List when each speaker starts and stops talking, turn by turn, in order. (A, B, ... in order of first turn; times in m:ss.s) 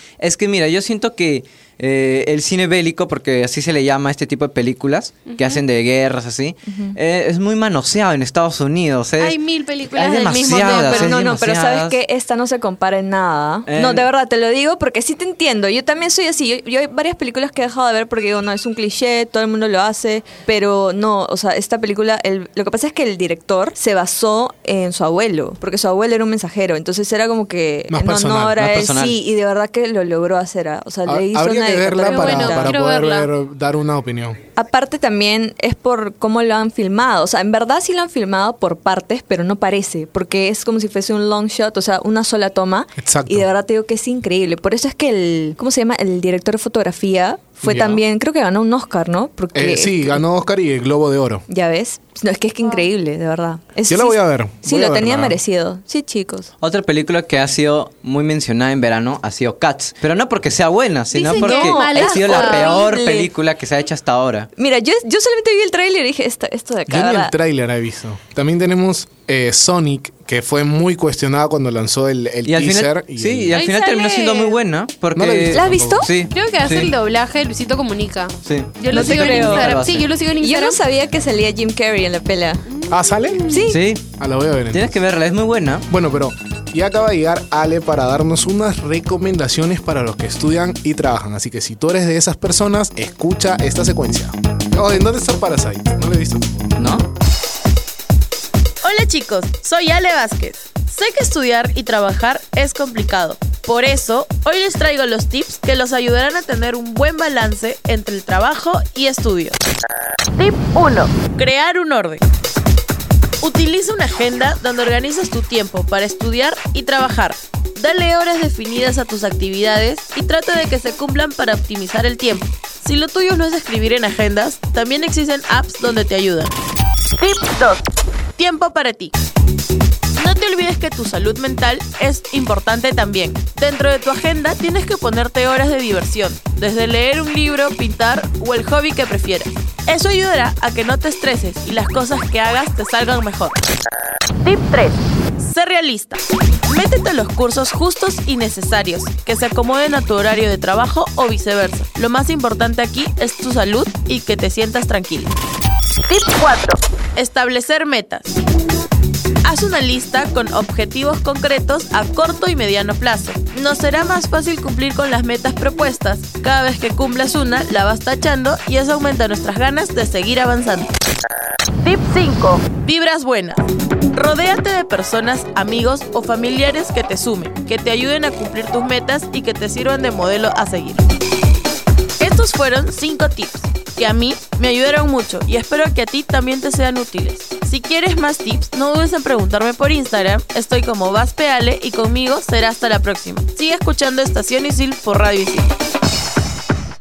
0:00.2-0:12.0 A
0:05.3-0:05.6 B
0:06.7-0:07.0 C
0:09.2-0:11.2 B
0:10.2-0:32.7 C
0:13.7-0:14.1 A
0:27.9-0:28.9 D
0:28.6-0:29.2 A
0:31.0-0:34.4 D
0:32.0-0:33.3 B
0:34.6-0:50.2 C
0:43.0-0:43.5 D
0:47.6-0:48.0 D
0:49.5-0:51.4 D
0:51.5-0:56.5 C
0:52.6-0:52.9 B
0:53.9-0:55.4 D
0:56.6-1:04.5 A
1:01.1-1:02.9 B
1:01.3-1:03.3 C
1:04.6-1:07.3 C
1:06.9-1:13.6 D
1:12.4-1:16.9 A
1:13.5-1:14.6 B
1:15.1-1:16.1 D
1:15.5-1:16.1 C
1:16.3-1:20.8 B
1:18.4-1:20.1 A
1:18.9-1:19.7 C
1:20.4-1:22.6 C
1:22.7-1:23.6 B
1:22.9-1:23.4 D
1:23.5-1:23.8 C
1:23.7-1:24.0 A
1:24.2-1:24.9 D
1:24.7-1:25.9 A
1:25.9-1:36.7 D
1:36.8-1:37.1 A
1:38.8-1:49.6 E
1:50.4-1:52.2 E
1:53.4-2:06.5 E
2:07.2-2:07.8 E
2:08.4-2:09.1 E
2:10.2-2:23.6 E
2:24.4-2:35.3 E
2:36.1-2:38.3 E
2:39.4-2:50.9 E
2:51.8-2:53.6 E
2:54.1-3:01.0 E
3:02.2-3:15.7 E